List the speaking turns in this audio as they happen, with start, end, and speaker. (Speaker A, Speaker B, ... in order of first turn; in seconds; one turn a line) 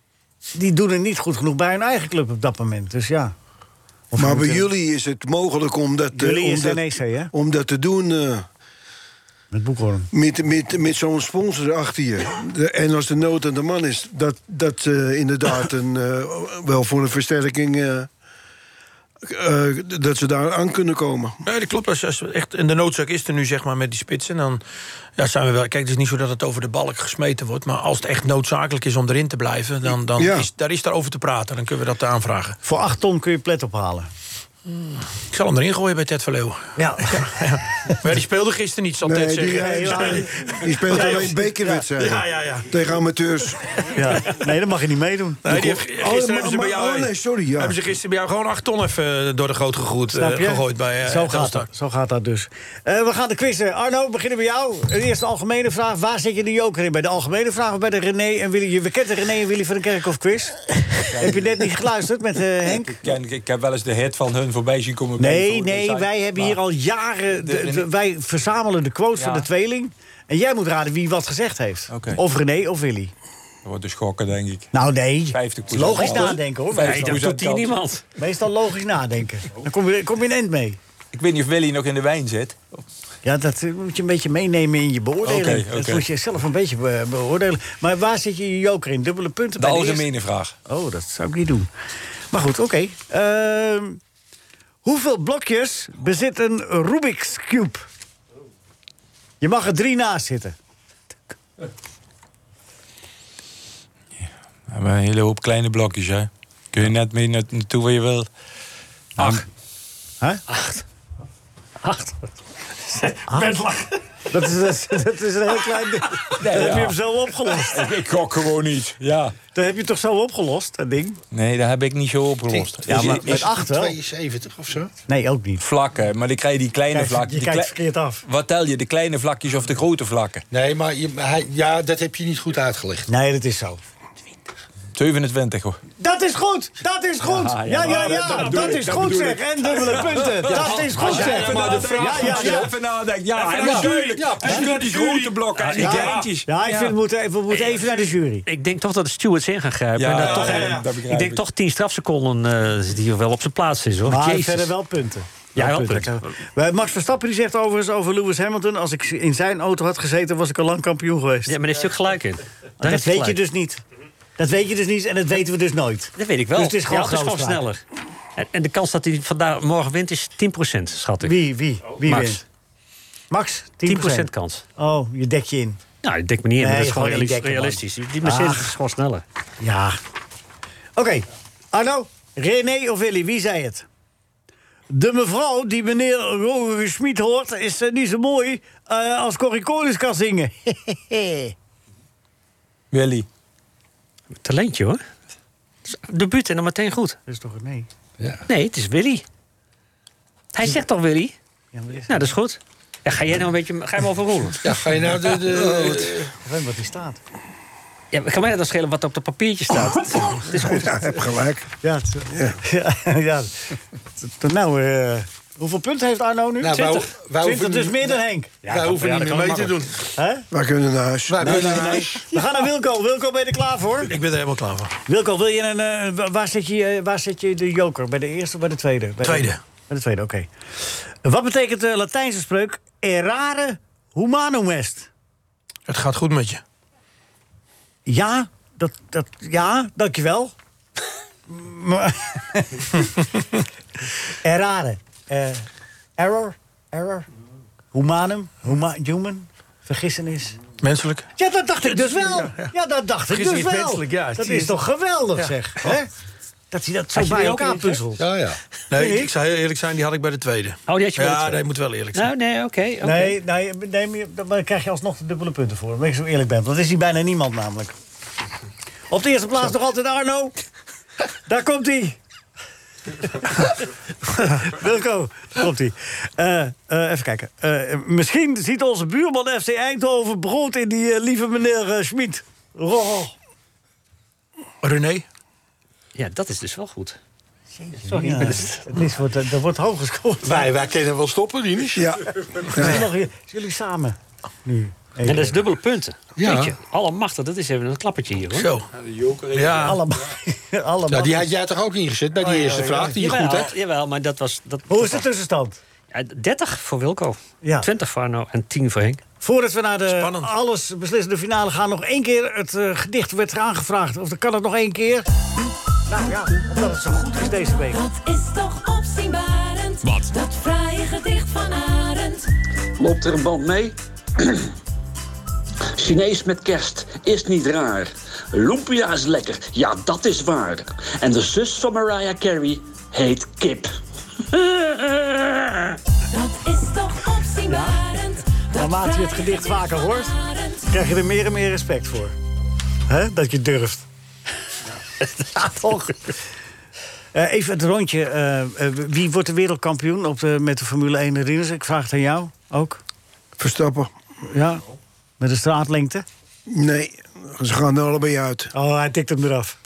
Speaker A: 0.5-3.3
Speaker A: 4.1-4.7
Speaker B: 4.2-8.4
Speaker A: 6.1-7.3
Speaker A: 9.5-10.1
Speaker B: 10.1-18.1
Speaker B: 19.2-21.3
Speaker C: 21.4-24.6
Speaker C: 25.2-32.6
Speaker B: 30.1-30.5
Speaker A: 32.6-34.1
Speaker C: 34.7-42.7
Speaker A: 36.8-37.3
Speaker B: 39.0-43.6
Speaker A: 39.5-41.8
Speaker A: 43.9-45.5
Speaker C: 45.4-51.7
Speaker B: 45.5-47.8
Speaker A: 50.1-63.0
Speaker D: 61.1-61.7
Speaker D: 62.7-66.6
Speaker A: 65.2-73.1
Speaker D: 67.4-67.9
Speaker D: 69.2-69.5
Speaker D: 71.9-72.2
Speaker D: 73.6-74.7
Speaker A: 74.7-77.2
Speaker D: 75.3-77.8
Speaker E: 75.9-78.0
Speaker A: 78.2-80.8
Speaker D: 81.1-82.6
Speaker A: 83.2-90.1
Speaker D: 85.2-86.0
Speaker D: 89.6-90.5
Speaker A: 90.7-91.7
Speaker A: 92.3-94.0
Speaker A: 94.8-97.9
Speaker A: 99.4-100.5
Speaker D: 104.2-108.3
Speaker A: 109.2-109.5
Speaker D: 109.2-109.4
Speaker E: 110.5-110.8
Speaker E: 111.8-112.3
Speaker E: 112.8-113.6
Speaker A: 113.3-117.9
Speaker D: 116.3-117.0
Speaker D: 117.6-119.3
Speaker A: 119.5-121.2
Speaker D: 121.3-123.5
Speaker F: 122.5-124.9
Speaker A: 122.9-124.0
Speaker A: 125.1-125.6
Speaker D: 125.6-127.7
Speaker A: 126.9-128.2
Speaker D: 128.2-130.4
Speaker F: 130.5-133.1
Speaker A: 133.1-133.8
Speaker D: 134.9-135.8
Speaker A: 136.0-142.7
Speaker D: 137.2-146.5
Speaker E: 137.8-138.6
Speaker F: 140.6-142.7
Speaker C: 141.4-141.8
Speaker F: 143.4-145.1
Speaker C: 143.5-145.3
Speaker E: 145.6-146.9
Speaker A: 145.8-148.5
Speaker E: 147.5-154.7
Speaker D: 149.9-151.4
Speaker C: 150.2-150.8
Speaker A: 154.0-161.6
Speaker E: 155.5-156.4
Speaker E: 161.4-163.4
Speaker A: 162.8-163.8
Speaker A: 164.4-167.6
Speaker E: 166.2-167.8
Speaker E: 168.3-171.4
Speaker A: 171.2-172.4
Speaker E: 172.0-172.4
Speaker A: 173.3-175.8
Speaker E: 173.8-174.6
Speaker E: 176.0-179.2
Speaker A: 176.6-178.7
Speaker A: 179.6-180.0
Speaker A: 180.9-183.8
Speaker A: 184.9-191.5
Speaker D: 192.9-193.3
Speaker E: 194.4-195.0
Speaker E: 195.9-197.2
Speaker A: 197.2-197.9
Speaker F: 198.2-198.4
Speaker E: 198.5-199.2
Speaker E: 200.5-201.3
Speaker A: 201.7-202.3
Speaker E: 202.1-204.7
Speaker F: 204.6-206.3
Speaker A: 205.5-207.2
Speaker E: 208.1-211.1
Speaker B: 210.4-211.7
Speaker A: 211.8-216.9
Speaker B: 212.3-212.6
Speaker F: 216.6-219.9
Speaker E: 216.7-217.1
Speaker A: 217.4-218.7
Speaker E: 218.6-219.7
Speaker A: 220.2-220.5
Speaker B: 220.5-222.0
Speaker F: 221.3-222.3
Speaker A: 221.4-224.1
Speaker C: 224.1-224.9
Speaker A: 225.1-230.5
Speaker C: 229.2-229.6
Speaker A: 231.2-235.1
Speaker C: 235.9-236.6
Speaker A: 238.1-240.5
Speaker A: 241.5-243.1
Speaker A: 244.4-247.3
Speaker A: 247.9-250.6
Speaker C: 250.8-251.3
Speaker A: 251.4-256.1
Speaker C: 251.8-252.7
Speaker C: 253.3-254.8
Speaker A: 256.7-258.2
Speaker E: 257.1-258.0
Speaker F: 258.2-258.6
Speaker C: 258.9-262.3
Speaker A: 258.9-259.3
Speaker E: 260.9-263.4
Speaker A: 263.0-267.9
Speaker A: 269.1-270.5
Speaker A: 271.5-272.2
Speaker A: 273.2-273.7
Speaker A: 274.2-283.3
Speaker C: 284.8-285.2
Speaker E: 286.1-287.2
Speaker A: 287.8-290.7
Speaker E: 288.0-289.0
Speaker F: 290.4-292.1
Speaker B: 291.9-293.1
Speaker A: 292.7-295.6
Speaker E: 295.2-298.8
Speaker F: 296.4-296.7
Speaker C: 298.5-298.9
Speaker D: 298.9-300.2
Speaker C: 299.5-300.0
Speaker A: 299.8-301.5
Speaker F: 301.1-303.7
Speaker A: 302.4-303.2
Speaker E: 302.9-305.2
Speaker A: 304.9-305.8
Speaker E: 306.1-309.2
Speaker A: 307.6-307.9
Speaker A: 309.4-315.3
Speaker C: 310.1-310.5
Speaker A: 316.1-318.0
Speaker G: 317.3-322.5
Speaker H: 323.0-324.7
Speaker H: 326.0-333.9
Speaker H: 334.5-335.8
Speaker G: 336.3-341.0
Speaker A: 337.7-338.0
Speaker A: 338.7-340.3
Speaker A: 340.9-342.3
Speaker A: 343.1-344.1
Speaker A: 345.4-346.2
Speaker A: 347.3-353.0
Speaker B: 353.6-354.1
Speaker A: 354.4-354.8
Speaker A: 355.4-356.2
Speaker B: 356.7-358.7
Speaker A: 358.7-359.8